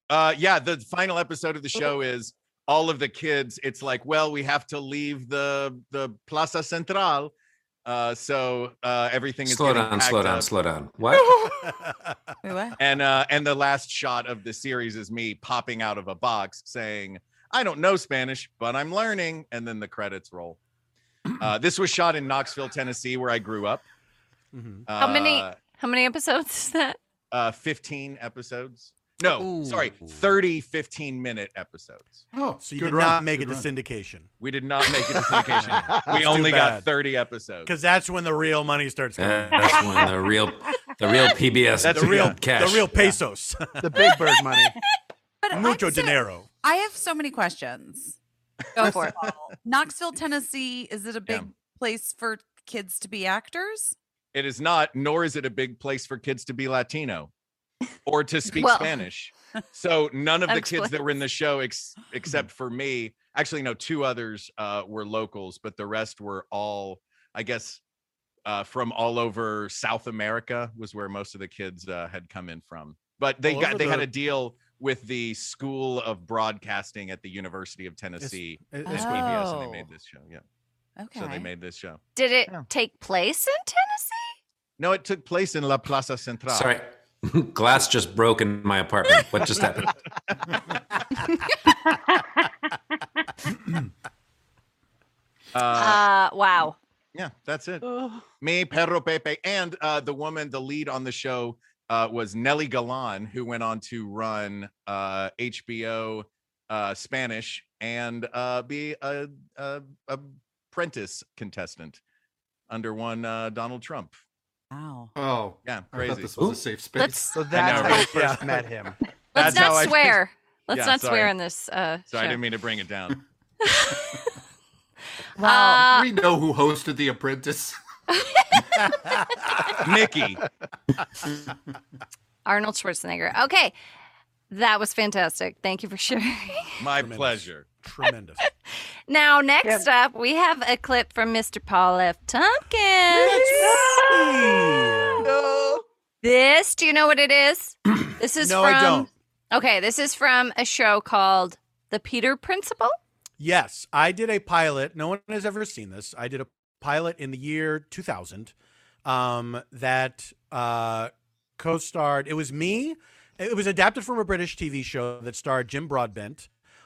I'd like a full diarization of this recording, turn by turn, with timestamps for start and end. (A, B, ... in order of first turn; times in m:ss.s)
0:00.1-0:07.3 A
0:07.9-0:10.5 A
0:09.5-0:11.4 B
0:11.2-0:12.1 C
0:12.4-0:12.8 D
0:12.8-0:20.6 A
0:21.4-0:23.8 A
0:24.5-0:24.9 C
0:24.9-0:25.6 A
0:25.0-0:27.0 E
0:27.3-0:32.2 A
0:32.3-0:33.7 F
0:32.6-0:34.3 C
0:34.4-0:37.7 A
0:35.2-0:36.9 C
0:37.7-0:40.1 C
0:39.2-0:43.1 B
0:41.8-0:42.4 A
0:41.9-0:44.1 C
0:43.8-0:44.8 G
0:45.4-0:48.2 D
0:45.5-0:46.5 C
0:48.8-0:49.4 E
0:49.6-0:54.0 D
0:54.3-0:57.3 A
0:58.1-1:07.8 A
0:58.6-0:59.0 E
1:00.5-1:00.9 E
1:08.5-1:20.4 A
1:13.4-1:14.1 C
1:18.2-1:19.3 C
1:18.9-1:19.9 D
1:21.0-1:21.5 D
1:21.1-1:22.6 A
1:22.2-1:24.4 E
1:24.8-1:26.7 A
1:26.5-1:29.9 B
1:35.5-1:36.0 A
1:35.8-1:36.8 E
1:37.2-1:37.9 A
1:38.4-1:52.0 A
1:52.7-1:54.2 A
1:54.7-1:55.1 D
1:55.2-1:57.9 F
1:55.6-1:56.4 A
1:57.1-1:59.0 G
1:57.5-1:58.3 A
1:57.5-1:58.7 C
1:59.3-2:00.2 A
1:59.3-2:02.4 E
1:59.4-1:59.7 C
2:00.7-2:01.3 A
2:02.1-2:03.2 A
2:03.6-2:04.2 E
2:05.4-2:05.8 D
2:05.4-2:06.1 E
2:05.8-2:07.8 F
2:08.1-2:08.9 E
2:09.8-2:10.4 A
2:12.5-2:13.7 E
2:14.5-2:16.8 E
2:16.8-2:17.8 A
2:17.0-2:18.4 C
2:19.1-2:23.8 E
2:23.1-2:25.4 C
2:26.2-2:33.0 E
2:28.4-2:29.1 C
2:33.4-2:38.5 C
2:39.0-2:46.5 C